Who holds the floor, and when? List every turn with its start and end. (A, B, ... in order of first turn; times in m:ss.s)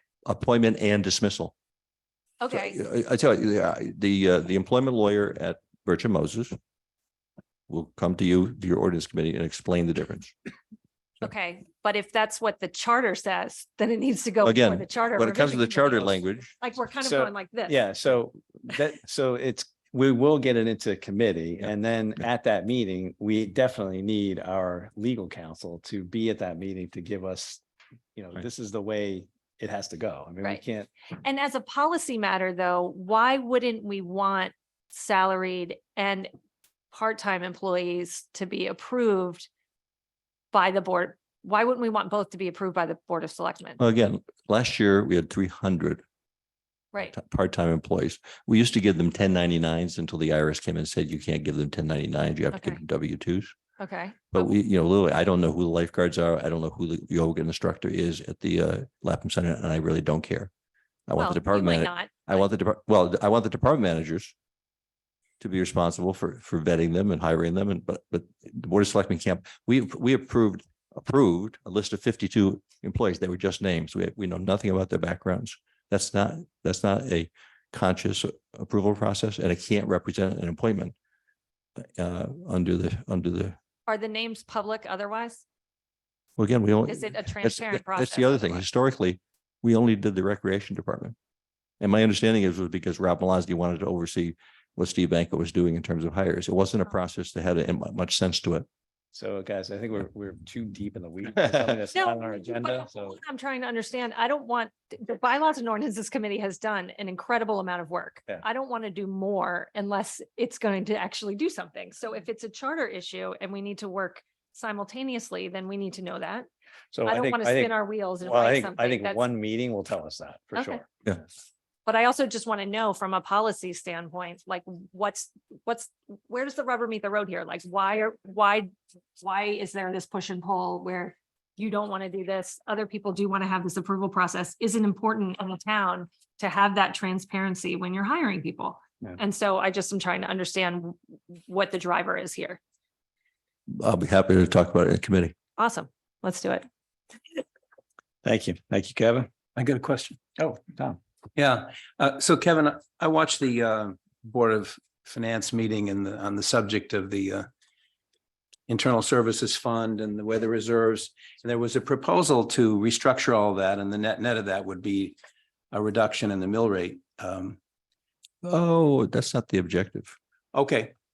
0:00.2-0:01.5 A
0:02.4-0:02.8 B
0:02.5-0:06.6 A
0:07.7-0:10.3 A
0:11.2-0:17.8 B
0:14.4-0:16.5 A
0:17.0-0:27.6 C
0:28.2-0:30.9 C
0:31.2-0:36.3 B
0:36.9-0:39.5 B
0:40.5-0:43.8 B
0:43.8-0:46.0 A
0:47.1-0:53.5 A
0:52.5-0:52.8 B
0:53.8-0:54.5 B
0:54.3-1:00.5 A
1:01.1-1:04.3 A
1:01.2-1:02.4 B
1:05.4-1:21.0 A
1:21.8-1:23.6 A
1:23.9-1:25.4 B
1:26.4-1:31.2 A
1:26.9-1:28.6 B
1:31.8-1:38.7 A
1:39.1-1:43.2 C
1:41.9-1:56.5 B
1:56.9-2:01.2 C
1:57.0-1:59.2 B
2:00.6-2:00.8 B
2:01.9-2:22.6 B
2:23.7-2:25.4 A
2:25.6-2:26.7 B
2:28.2-2:29.3 C
2:29.6-2:30.8 D
2:31.4-2:37.5 D
2:38.7-2:45.2 D
2:45.7-2:47.6 D
2:48.4-2:50.2 A
2:50.5-2:50.9 D